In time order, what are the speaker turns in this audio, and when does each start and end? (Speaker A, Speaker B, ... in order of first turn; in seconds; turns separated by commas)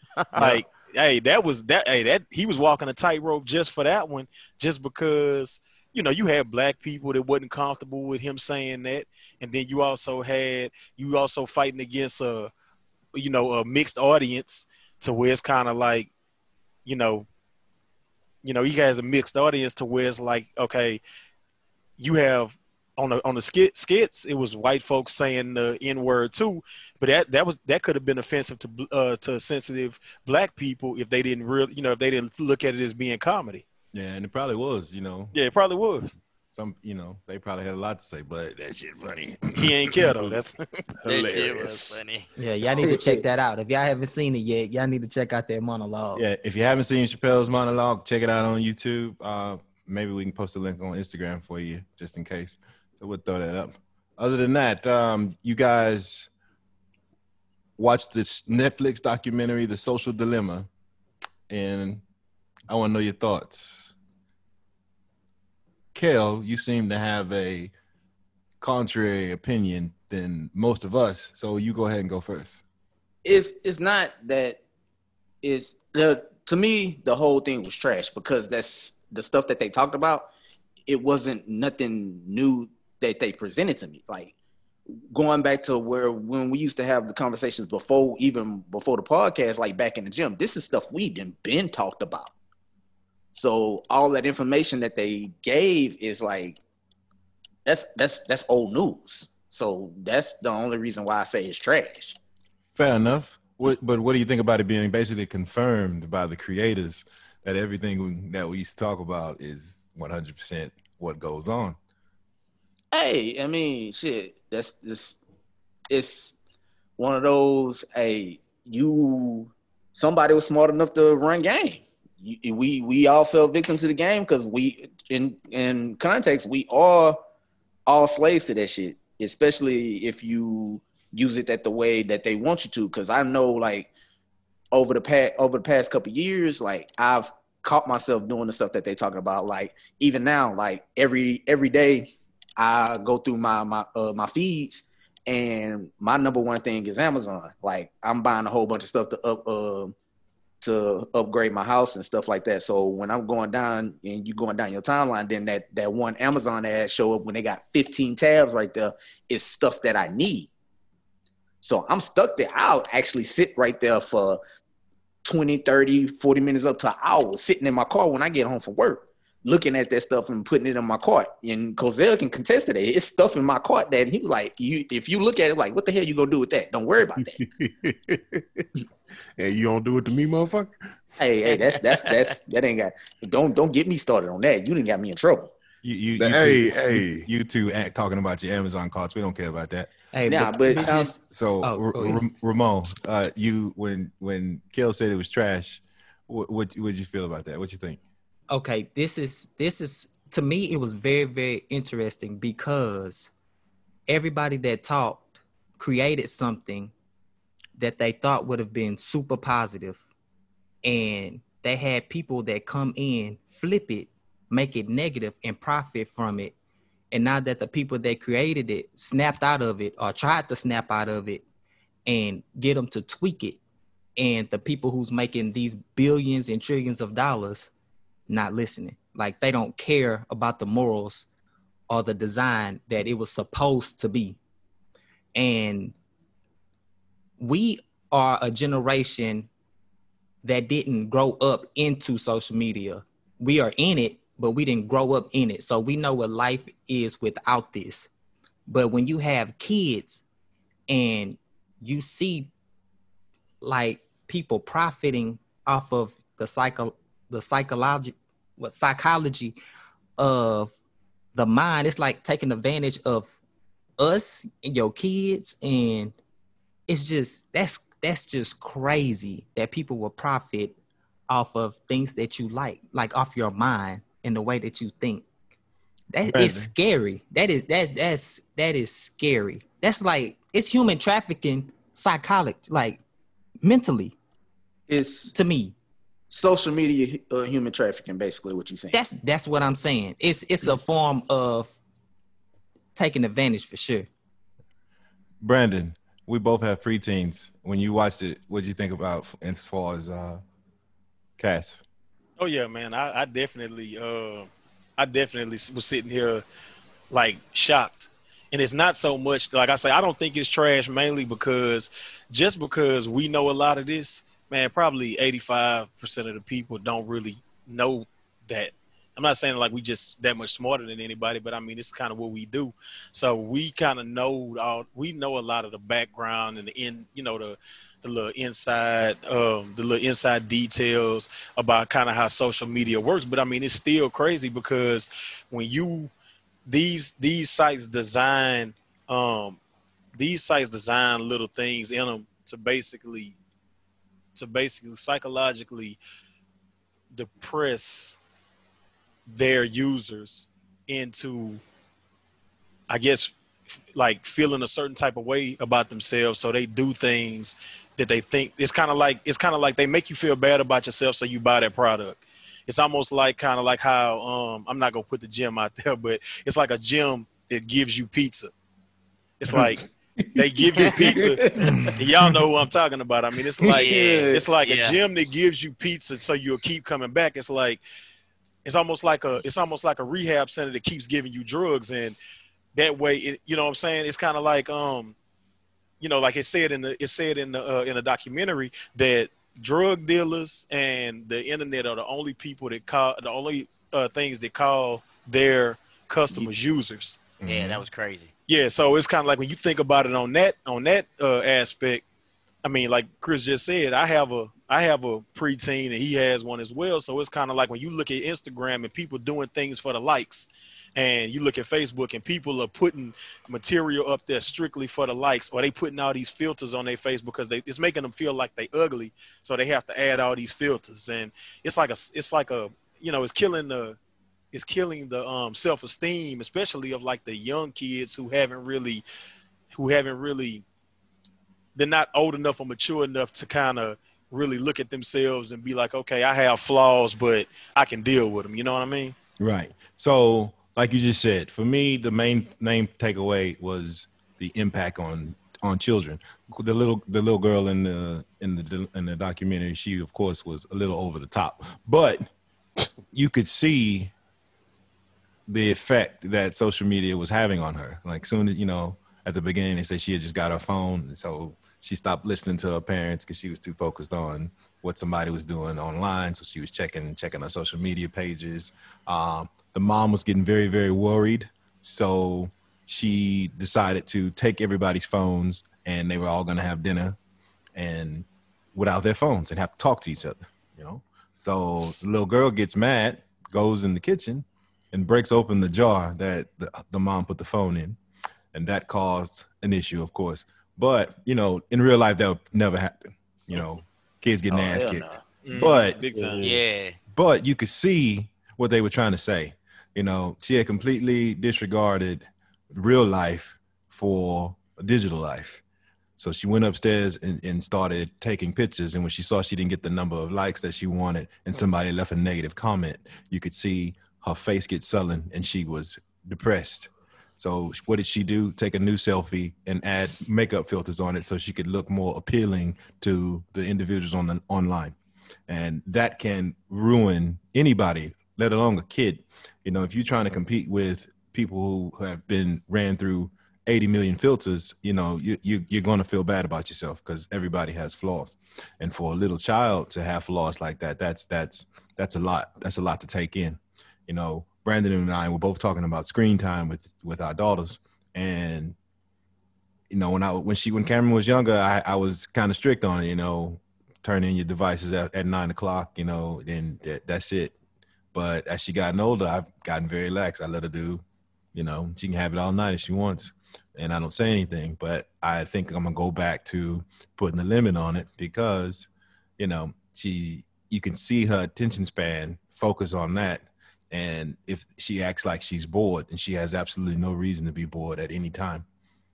Speaker A: 0.3-12.5, Speaker A: 13.1-16.1, Speaker A: 16.9-17.3, Speaker A: 18.4-21.0, Speaker A: 22.0-33.6, Speaker B: 33.9-35.3, Speaker A: 35.3-36.1, Speaker B: 36.5-40.0, Speaker A: 39.5-40.6, Speaker C: 41.0-42.0, Speaker D: 41.0-42.3, Speaker E: 42.4-46.2, Speaker F: 42.8-43.2, Speaker B: 46.1-56.3, Speaker B: 57.8-60.7, Speaker B: 61.5-62.0, Speaker B: 62.7-63.9, Speaker B: 65.9-67.7, Speaker B: 68.6-72.6, Speaker F: 73.2-74.6, Speaker F: 75.4-80.3, Speaker F: 80.9-84.3, Speaker F: 85.1-92.3, Speaker F: 93.3-96.6, Speaker F: 97.7-102.2, Speaker B: 102.7-111.8, Speaker F: 112.9-115.2, Speaker F: 115.9-116.3, Speaker F: 117.0-127.2, Speaker F: 127.9-133.9, Speaker F: 134.7-149.9, Speaker F: 150.6-160.5, Speaker F: 161.6-164.4, Speaker F: 165.2-177.4, Speaker C: 177.4-178.7, Speaker C: 179.4-180.8, Speaker F: 181.2-185.5, Speaker B: 185.8-189.9, Speaker C: 186.2-187.3, Speaker E: 190.1-192.2, Speaker F: 190.3-191.1, Speaker B: 190.8-198.0, Speaker E: 198.5-203.3, Speaker E: 204.1-206.9, Speaker E: 207.8-210.0, Speaker E: 210.8-216.5, Speaker E: 217.1-221.4, Speaker E: 222.1-223.6, Speaker E: 224.2-227.7, Speaker E: 228.3-231.2, Speaker E: 231.9-234.4, Speaker E: 235.3-235.9, Speaker E: 237.4-239.5, Speaker E: 240.4-248.1, Speaker E: 248.7-250.2, Speaker E: 250.9-252.5, Speaker E: 253.6-259.6, Speaker E: 260.2-260.7, Speaker E: 261.3-263.3, Speaker E: 264.0-266.1, Speaker E: 266.9-270.7, Speaker E: 271.3-275.2, Speaker E: 276.1-283.0, Speaker B: 276.3-276.7, Speaker E: 283.6-284.1, Speaker F: 284.9-285.3, Speaker E: 285.3-285.7, Speaker F: 286.3-289.0, Speaker E: 288.9-291.7, Speaker E: 292.9-294.1, Speaker B: 295.4-300.4, Speaker B: 301.4-301.8, Speaker A: 302.4-306.4, Speaker A: 307.1-336.1, Speaker A: 336.6-339.6, Speaker A: 340.1-343.4, Speaker A: 344.3-346.0, Speaker A: 347.1-348.2, Speaker A: 349.3-351.6, Speaker A: 352.9-353.3, Speaker A: 353.9-368.5, Speaker A: 369.4-377.8, Speaker C: 369.5-371.6, Speaker D: 373.7-375.0, Speaker C: 373.7-374.2, Speaker A: 378.6-382.2, Speaker A: 382.7-385.1, Speaker A: 386.0-397.2, Speaker B: 397.4-397.8, Speaker D: 397.4-398.3, Speaker A: 398.5-402.0, Speaker A: 402.6-424.0, Speaker A: 424.5-429.0, Speaker A: 429.7-430.6, Speaker A: 431.8-439.1, Speaker B: 439.4-452.3, Speaker B: 453.1-454.1, Speaker B: 455.5-477.2, Speaker B: 477.7-488.0, Speaker B: 488.5-496.0, Speaker F: 494.5-495.2, Speaker A: 495.4-496.4, Speaker C: 496.1-496.6, Speaker D: 496.4-497.0, Speaker B: 497.1-505.6, Speaker B: 506.2-524.9, Speaker B: 525.5-548.7, Speaker B: 549.9-557.5, Speaker B: 558.1-561.0, Speaker B: 561.5-578.6